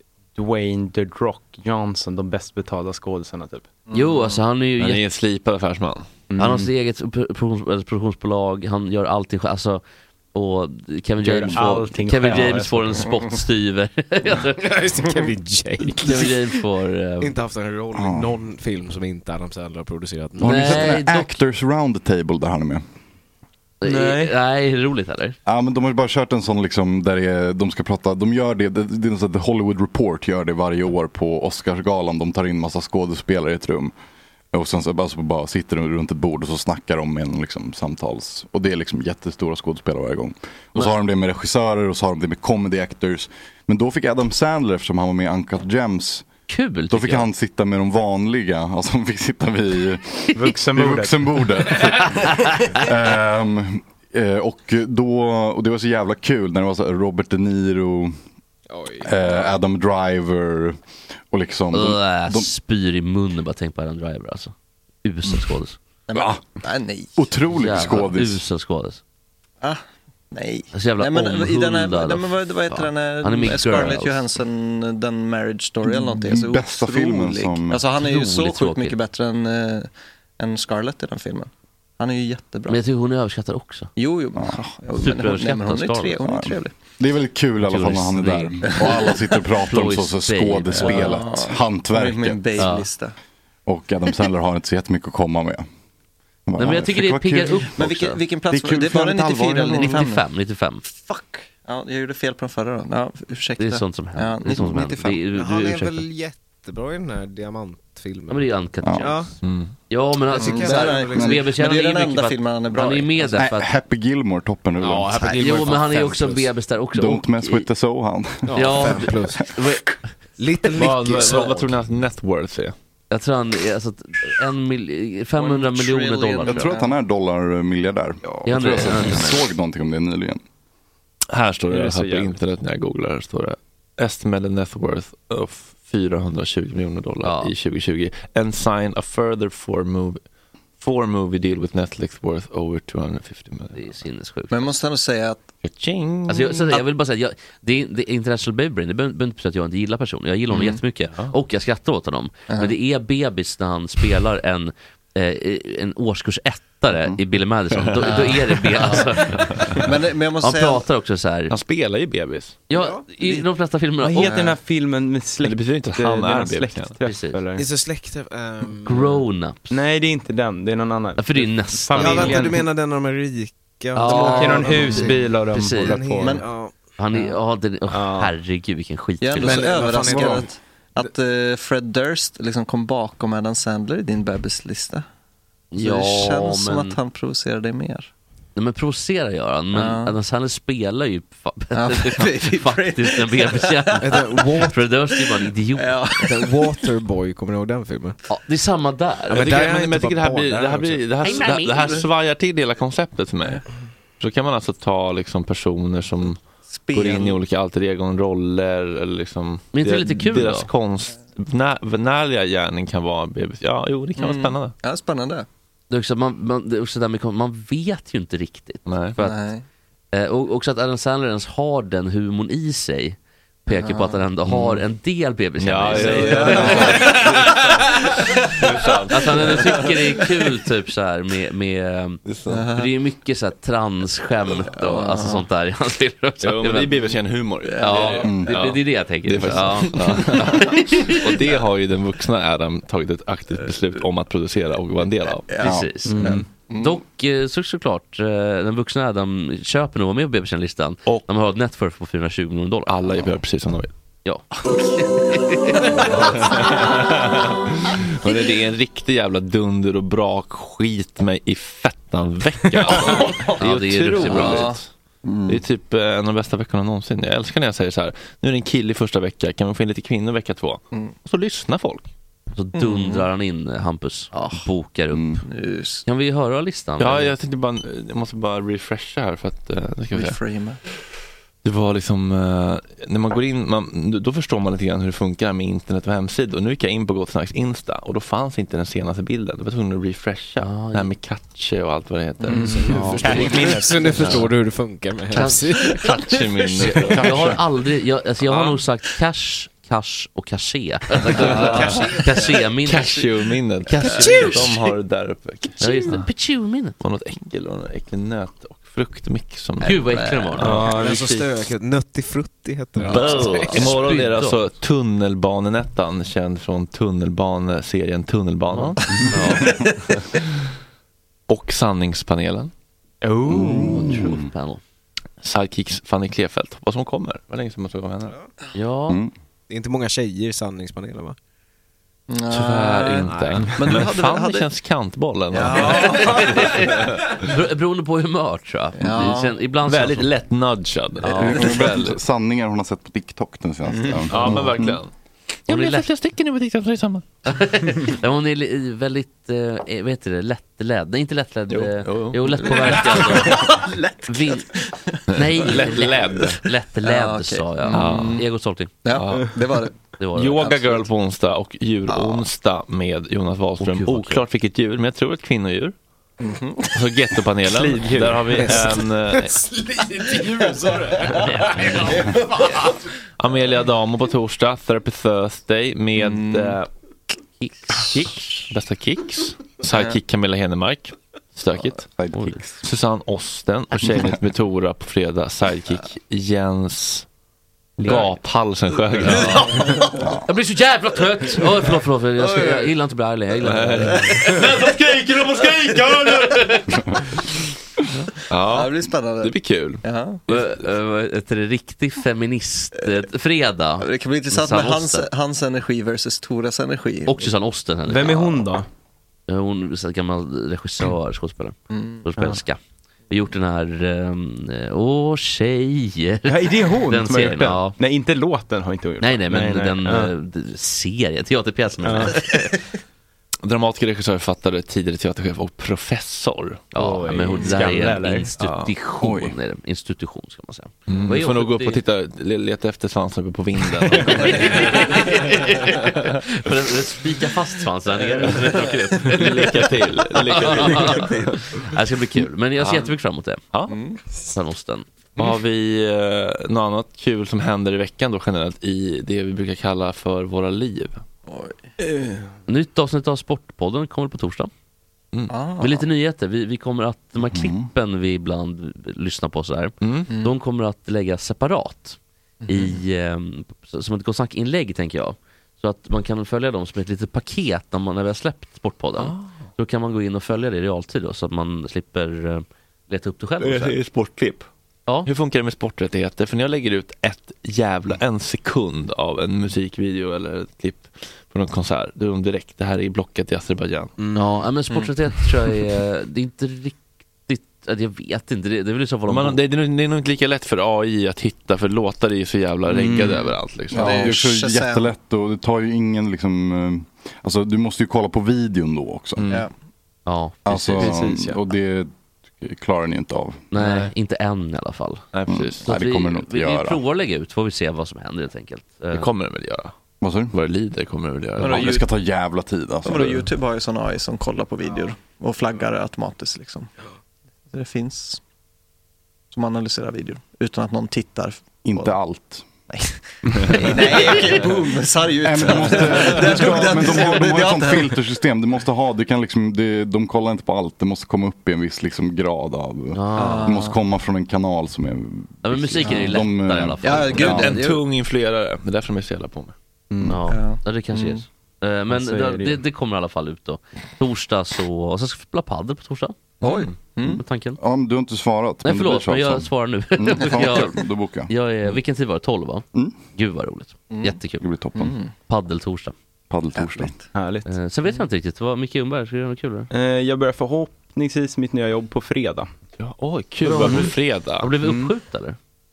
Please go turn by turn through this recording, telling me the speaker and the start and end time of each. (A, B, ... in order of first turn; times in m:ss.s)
0:00.3-0:03.7 A
0:03.9-0:04.4 B
0:03.9-0:05.0 C
0:04.8-0:06.1 D
0:06.3-0:06.7 A
0:06.4-0:09.8 C
0:10.3-0:14.8 C
0:11.3-0:13.1 A
0:14.5-0:16.6 E
0:15.9-0:17.3 C
0:17.2-0:21.0 E
0:18.0-0:18.3 F
0:20.4-0:21.4 C
0:20.4-0:22.8 F
0:23.8-0:25.4 C
0:23.8-0:24.3 A
0:25.5-0:33.9 F
0:34.5-0:46.3 F
0:46.5-0:47.3 C
0:46.9-0:58.1 F
0:50.3-0:51.5 A
0:58.7-0:59.3 E
0:59.0-1:00.8 F
1:01.3-1:02.5 F
1:01.7-1:04.5 C
1:05.0-1:05.8 C
1:06.1-1:07.3 B
1:06.1-1:06.4 F
1:07.2-1:08.4 F
1:07.5-1:09.0 C
1:09.6-1:22.8 B
1:10.7-1:14.2 C
1:15.9-1:17.8 F
1:18.0-1:19.0 C
1:22.7-1:23.9 C
1:24.0-1:26.8 B
1:25.0-1:26.2 C
1:26.2-1:32.5 F
1:27.6-1:28.9 C
1:28.7-1:29.2 B
1:29.6-1:31.2 C
1:30.7-1:33.1 B
1:32.6-1:32.9 C
1:33.7-1:35.6 F
1:36.5-1:37.7 F
1:36.6-1:38.2 C
1:37.8-1:40.2 B
1:38.5-1:40.0 F
1:39.7-1:40.8 C
1:40.8-1:45.2 B
1:43.6-1:46.1 C
1:45.2-1:49.3 E
1:48.3-1:49.3 C
1:48.8-1:49.1 F
1:49.4-1:49.7 D
1:49.9-1:53.7 C
1:50.3-1:51.4 E
1:50.4-1:53.4 B
1:53.4-1:55.4 F
1:54.8-1:56.5 E
1:55.3-1:57.7 C
1:56.9-1:59.0 F
1:58.4-1:59.5 E
1:58.5-1:59.9 C
2:00.4-2:01.7 E
2:00.6-2:01.5 C
2:00.7-2:02.7 D
2:03.1-2:06.7 C
2:05.4-2:06.9 B
2:06.4-2:10.4 F
2:08.4-2:09.4 C
2:11.3-2:20.2 D
2:11.7-2:12.3 A
2:17.2-2:17.5 C
2:20.8-2:23.8 D
2:23.7-2:24.7 C
2:24.5-2:25.4 B
2:25.6-2:26.7 D
2:26.3-2:39.8 C
2:30.5-2:30.8 B
2:32.5-2:32.8 B
2:37.7-2:39.8 D
2:39.8-2:40.8 B
2:40.4-2:41.5 C
2:41.5-2:42.6 D
2:42.7-2:44.4 C
2:42.7-2:43.1 E
2:44.0-2:47.6 A
2:44.3-2:44.5 B
2:45.4-2:46.9 D
2:47.0-2:47.4 C
2:47.6-2:49.2 E
2:48.8-2:49.8 C
2:49.7-2:52.6 A
2:51.2-2:52.5 C
2:52.0-2:56.7 E
2:53.9-2:56.2 C
2:54.0-2:56.4 A
2:56.2-2:56.5 B
2:57.0-3:00.0 C
2:57.9-2:58.3 A
2:59.2-3:05.0 B
2:59.4-3:00.5 E
3:05.7-3:07.0 C
3:05.8-3:08.1 B
3:08.6-3:16.0 C
3:09.7-3:10.1 B
3:11.7-3:14.6 B
3:14.0-3:14.8 E
3:15.3-3:16.8 B
3:16.2-3:18.2 E
3:18.3-3:19.6 C
3:19.3-3:21.2 E
3:19.3-3:23.6 D
3:21.2-3:22.0 C
3:24.2-3:26.4 D
3:26.7-3:27.4 B
3:26.9-3:34.7 D
3:29.7-3:30.7 C
3:34.2-3:35.5 B
3:35.9-3:39.4 C
3:38.8-3:39.2 D
3:39.2-3:39.6 B
3:40.1-3:47.6 C
3:43.7-3:44.2 B
3:44.5-3:44.8 D
3:45.6-3:49.9 D
3:45.9-3:47.6 B
3:49.1-3:52.2 C
3:52.2-3:52.6 D
3:52.5-3:52.9 B
3:52.7-3:57.0 C
3:54.6-3:55.4 B
3:56.4-4:05.5 D
3:57.6-3:58.3 B
3:57.8-4:01.2 C
3:58.2-3:58.5 F
3:59.4-4:00.2 B
4:05.5-4:07.0 B
4:05.6-4:12.9 C
4:05.6-4:06.0 F
4:06.0-4:06.4 A
4:12.9-4:13.9 D
4:14.2-4:16.7 C
4:15.9-4:16.3 B
4:16.1-4:24.9 D
4:23.0-4:23.5 B
4:23.6-4:24.7 C
4:24.2-4:24.8 B
4:25.2-4:25.6 F
4:25.5-4:32.1 D
4:32.5-4:35.4 C
4:32.7-4:33.3 B
4:34.3-4:34.6 B
4:35.1-4:35.4 F
4:35.4-4:36.0 B
4:36.0-4:37.3 C
4:37.0-4:40.4 D
4:40.1-4:40.8 B
4:41.6-4:52.7 D
4:50.6-4:51.1 C
4:52.5-4:56.2 E
4:52.5-4:54.4 A
4:52.8-4:53.7 C
4:53.2-4:53.5 D
4:54.1-4:54.5 D
4:55.3-4:56.0 C
4:55.8-4:57.6 D
4:56.8-4:57.1 E
4:56.9-5:03.2 C
5:01.4-5:02.2 D
5:01.5-5:02.2 E
5:02.8-5:06.2 D
5:03.9-5:04.7 C
5:04.0-5:04.6 B
5:04.1-5:04.6 E
5:05.8-5:07.0 C
5:07.0-5:10.1 D
5:09.8-5:10.8 C
5:09.8-5:10.8 B
5:10.6-5:11.4 A
5:10.6-5:14.0 E
5:13.0-5:19.3 D
5:13.1-5:14.6 C
5:18.7-5:19.8 C
5:19.1-5:19.9 B
5:21.5-5:22.7 D
5:23.2-5:24.1 A
5:23.5-5:24.5 F
5:23.5-5:24.8 C
5:25.4-5:28.3 D
5:28.7-5:29.2 C
5:29.7-5:31.4 E
5:32.3-5:34.7 B
5:32.5-5:37.3 D
5:33.3-5:33.9 E
5:35.5-5:36.9 B
5:35.9-5:40.3 C
5:39.0-5:39.6 B
5:39.8-5:42.2 D
5:41.2-5:41.7 C
5:41.4-5:45.0 F
5:44.0-5:44.6 B
5:44.3-5:45.1 D
5:45.7-5:47.2 D
5:45.7-5:46.1 C
5:47.4-5:54.7 C
5:51.7-5:53.6 D
5:52.6-5:56.2 B
5:55.3-5:56.6 D
5:55.3-5:58.9 C
5:57.0-5:58.4 B
5:57.9-5:58.4 D
5:59.0-5:59.9 B
5:59.1-5:59.5 D
6:00.2-6:00.7 C
6:00.4-6:05.9 D
6:00.6-6:01.1 B
6:02.1-6:02.4 B
6:03.8-6:04.4 C
6:06.4-6:07.0 B
6:06.9-6:09.6 D
6:07.7-6:08.9 A
6:08.5-6:11.5 E
6:11.3-6:12.3 C
6:12.0-6:12.4 E
6:13.4-6:16.9 D
6:16.2-6:16.8 B
6:17.6-6:18.1 C
6:18.0-6:22.1 D
6:19.9-6:20.2 B
6:22.1-6:22.8 F
6:22.3-6:22.6 C
6:22.8-6:27.2 D
6:28.0-6:28.3 A
6:28.0-6:30.1 D
6:29.2-6:34.9 C
6:29.3-6:30.2 B
6:32.4-6:32.9 B
6:33.6-6:36.7 D
6:34.2-6:34.6 B
6:36.2-6:36.9 C
6:38.3-6:40.7 D
6:38.6-6:40.4 B
6:40.5-6:45.3 C
6:44.0-6:47.5 B
6:47.3-6:48.7 C
6:48.1-6:48.9 A
6:49.5-6:52.8 C
6:51.9-6:52.2 B
6:53.3-6:58.0 C
6:56.4-7:00.3 A
6:59.2-7:02.7 C
7:02.0-7:02.4 A
7:03.6-7:06.9 D
7:06.9-7:12.0 C
7:06.9-7:08.6 A
7:08.6-7:08.8 D
7:09.2-7:09.5 F
7:11.1-7:16.4 D
7:14.2-7:23.7 C
7:19.2-7:21.6 D
7:22.8-7:23.1 D
7:23.9-7:24.2 B
7:24.5-7:25.0 C
7:25.4-7:31.2 D
7:31.5-7:32.0 B
7:32.7-7:34.7 C
7:35.5-7:36.1 B
7:35.8-7:54.0 C
7:37.5-7:37.9 F
7:40.0-7:40.3 D
7:40.3-7:40.5 B
7:42.6-7:43.0 B
7:49.2-7:49.5 D
7:53.6-7:54.7 D
7:55.2-8:04.1 D
8:04.3-8:09.6 C
8:09.3-8:14.3 D
8:12.9-8:15.1 B
8:13.9-8:19.5 F
8:19.4-8:19.6 D
8:20.2-8:21.2 C
8:20.6-8:23.6 F
8:20.9-8:21.6 A
8:23.7-8:25.2 C
8:25.3-8:25.9 D
8:25.5-8:27.0 F
8:25.8-8:29.3 C
8:29.1-8:29.9 D
8:30.2-8:30.5 F
8:30.5-8:32.0 D
8:31.6-8:32.1 B
8:31.6-8:33.4 F
8:33.0-8:36.9 B
8:37.7-8:38.4 B
8:39.5-8:42.2 B
8:41.8-8:42.6 F
8:42.9-8:48.2 B
8:45.4-8:57.8 F
8:53.1-8:53.7 C
8:53.4-8:54.0 B
8:55.6-8:57.5 C
8:56.0-8:56.4 B
8:57.0-8:58.0 B
8:57.3-8:59.7 D
9:00.1-9:00.4 A
9:00.2-9:06.4 C
9:00.5-9:01.4 B
9:02.1-9:02.8 A
9:06.6-9:07.4 B
9:06.6-9:06.9 D
9:07.3-9:07.8 C
9:07.8-9:11.5 F
9:08.8-9:14.7 C
9:14.1-9:14.4 B
9:14.6-9:15.1 F
9:14.9-9:15.3 B
9:15.5-9:16.1 C
9:16.5-9:17.1 F
9:16.8-9:17.2 B
9:17.3-9:17.7 A
9:17.6-9:19.9 C
9:19.9-9:22.7 A
9:23.0-9:24.7 D
9:23.6-9:25.6 C
9:24.8-9:25.1 A